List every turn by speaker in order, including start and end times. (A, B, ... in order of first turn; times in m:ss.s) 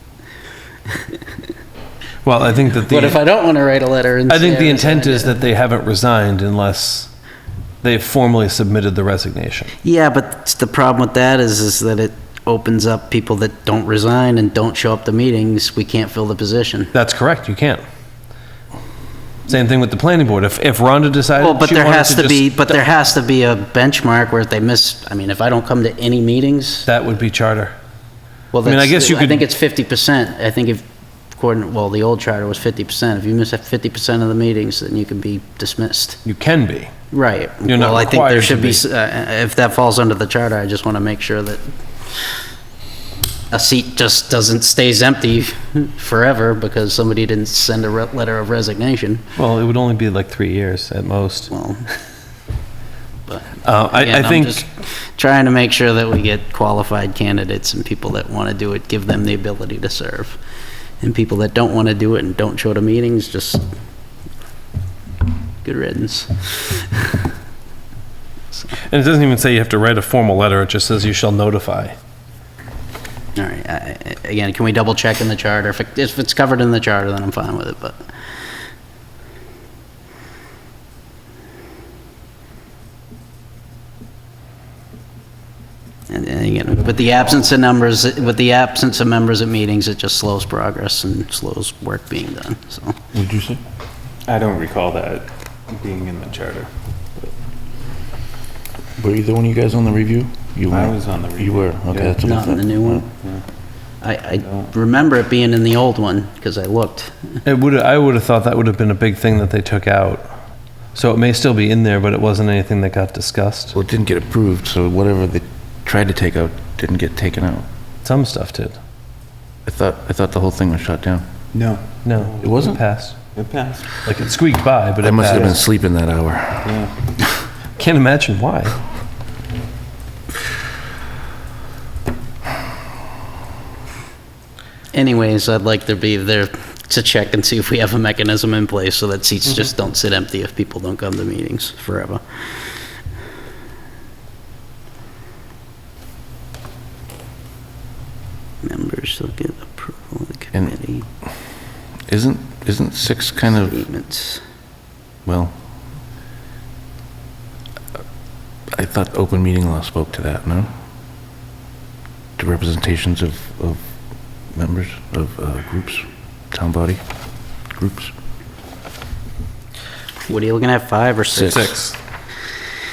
0:02.2-0:03.2 A
0:02.9-0:05.4 B
0:04.3-0:07.1 A
0:07.8-0:09.7 A
0:09.8-0:16.9 B
0:16.9-0:17.8 A
0:19.5-0:22.8 A
0:21.4-0:26.9 B
0:26.9-0:27.7 A
0:28.5-0:36.2 B
0:28.6-0:29.5 A
0:36.2-0:36.9 A
0:37.1-0:41.7 B
0:37.7-0:38.8 A
0:43.5-0:49.3 B
0:49.4-0:51.5 A
0:51.5-0:51.9 B
0:53.3-1:00.4 B
0:53.6-0:54.6 A
1:01.0-1:03.6 B
1:05.6-1:07.2 B
1:08.8-1:12.0 A
1:13.4-1:18.0 B
1:26.1-1:33.0 B
1:26.8-1:27.5 C
1:33.1-1:33.6 D
1:34.3-1:36.7 C
1:39.0-1:43.0 D
1:40.7-1:42.2 C
1:42.2-1:43.1 B
1:44.0-1:47.4 B
1:44.4-1:44.7 C
1:47.4-1:50.4 A
1:51.0-1:53.8 A
1:53.7-1:57.7 D
1:58.0-1:58.8 A
1:59.6-2:01.2 D
2:01.5-2:02.6 C
2:02.0-2:03.2 A
2:02.4-2:02.8 D
2:03.4-2:04.0 C
2:04.0-2:05.6 A
2:05.0-2:06.7 D
2:05.2-2:05.6 C
2:06.6-2:07.0 C
2:07.8-2:08.8 A
2:14.9-2:22.2 B
2:28.6-2:31.1 B
2:32.1-2:33.8 D
2:33.5-2:34.4 B
2:35.2-2:35.6 D
2:38.7-2:40.7 D
2:42.4-2:43.8 D
2:44.5-2:47.0 D
2:47.7-2:48.1 D
2:50.3-2:51.7 B
2:51.3-2:51.7 D
2:51.5-2:52.0 A